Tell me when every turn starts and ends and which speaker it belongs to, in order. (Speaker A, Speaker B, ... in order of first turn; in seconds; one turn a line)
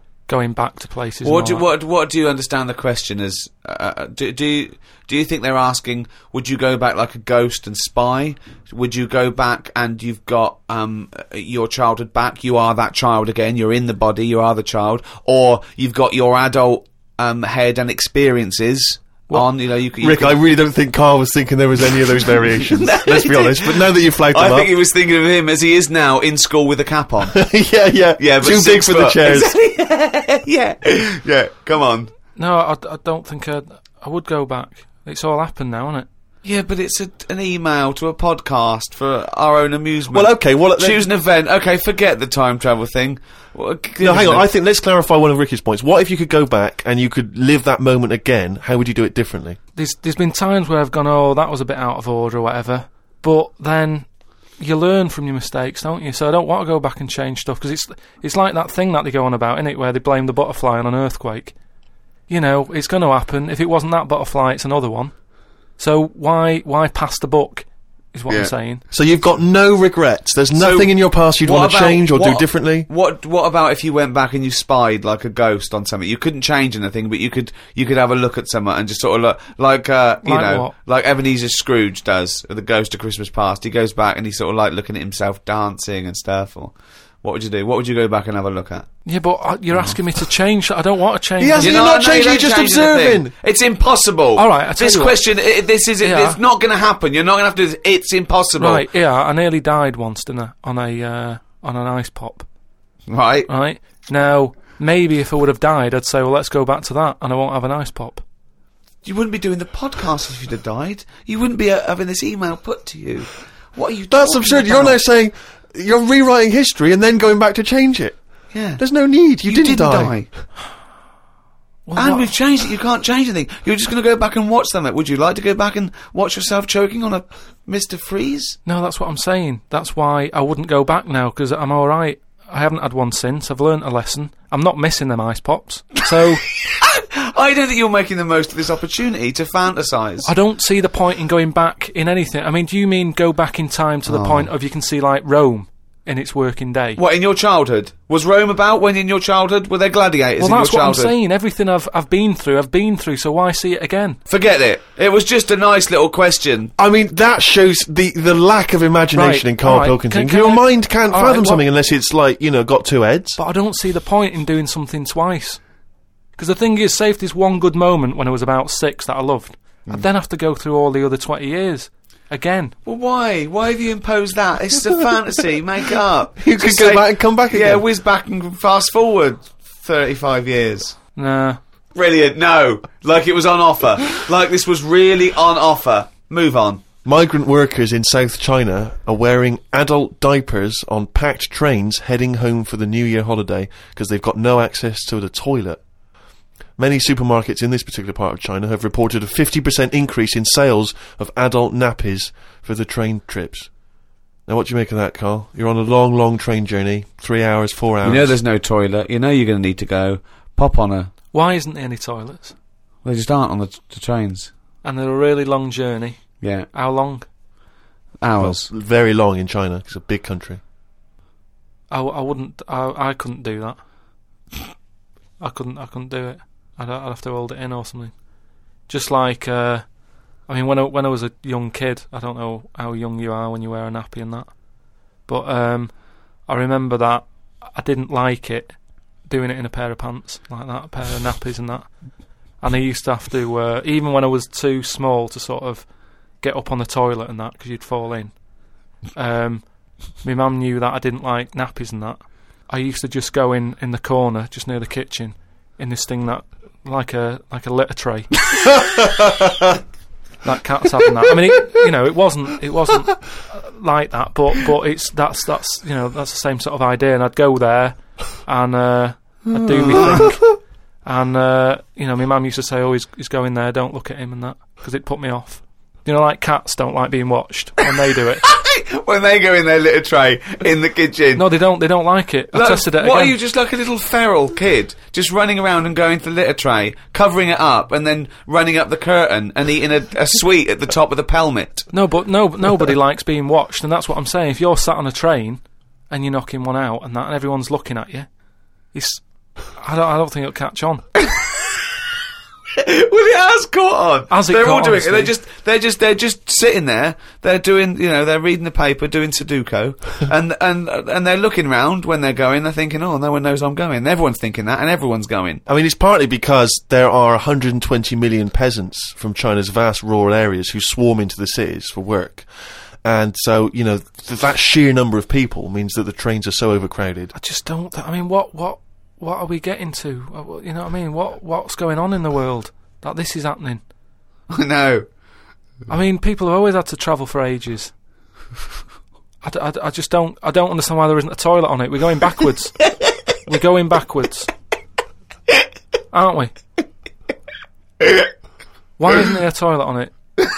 Speaker A: 0.3-1.6
Speaker B: 1.2-20.4
Speaker C: 20.0-24.7
Speaker B: 22.7-27.4
Speaker C: 27.3-29.5
Speaker B: 28.2-32.1
Speaker A: 32.4-36.1
Speaker B: 36.4-44.5
Speaker C: 40.1-41.0
Speaker C: 44.0-49.6
Speaker A: 49.8-54.1
Speaker A: 54.6-61.5
Speaker A: 62.3-65.1
Speaker A: 65.8-68.8
Speaker C: 68.9-72.9
Speaker B: 70.5-88.9
Speaker A: 80.2-80.7
Speaker A: 89.0-91.9
Speaker C: 91.4-93.3
Speaker B: 91.6-98.8
Speaker A: 94.3-95.2
Speaker A: 96.0-96.4
Speaker A: 98.6-102.5
Speaker B: 103.1-103.5
Speaker A: 103.5-108.2
Speaker B: 109.0-115.0
Speaker C: 114.1-118.2
Speaker B: 118.5-118.8
Speaker C: 118.8-120.2
Speaker B: 119.4-120.3
Speaker A: 121.9-122.3
Speaker B: 121.9-128.6
Speaker A: 128.7-136.4
Speaker B: 136.7-140.3
Speaker A: 140.2-147.0
Speaker B: 144.1-144.5
Speaker B: 147.0-151.1
Speaker A: 150.4-154.2
Speaker B: 154.3-156.7
Speaker C: 156.8-163.4
Speaker A: 159.1-161.6
Speaker A: 163.4-165.6
Speaker A: 166.3-172.7
Speaker B: 172.8-181.0
Speaker C: 176.4-177.8
Speaker A: 181.2-181.6
Speaker B: 181.9-186.8
Speaker C: 187.0-195.8
Speaker C: 196.8-203.7
Speaker C: 204.5-208.3
Speaker B: 208.0-211.1
Speaker A: 211.3-212.5
Speaker B: 213.0-214.5
Speaker A: 214.8-217.3
Speaker B: 216.4-216.7
Speaker B: 218.2-218.7
Speaker C: 218.4-220.6
Speaker A: 221.9-223.8
Speaker A: 225.4-228.1
Speaker A: 228.9-229.8
Speaker A: 230.5-234.6
Speaker A: 235.2-235.9
Speaker A: 236.4-241.9
Speaker A: 242.6-245.8
Speaker A: 246.4-248.4
Speaker A: 249.1-258.4
Speaker C: 258.7-259.7
Speaker A: 260.4-278.4
Speaker B: 269.9-270.2
Speaker B: 278.4-281.4
Speaker A: 281.4-283.3
Speaker B: 282.5-291.9
Speaker A: 291.9-298.3
Speaker A: 298.9-301.0
Speaker B: 302.8-315.6
Speaker A: 304.3-305.3
Speaker C: 315.7-322.4
Speaker C: 323.0-327.3
Speaker A: 327.3-333.8
Speaker B: 334.5-335.1
Speaker A: 335.9-337.9
Speaker A: 339.4-344.5
Speaker A: 346.1-346.5
Speaker A: 349.0-350.1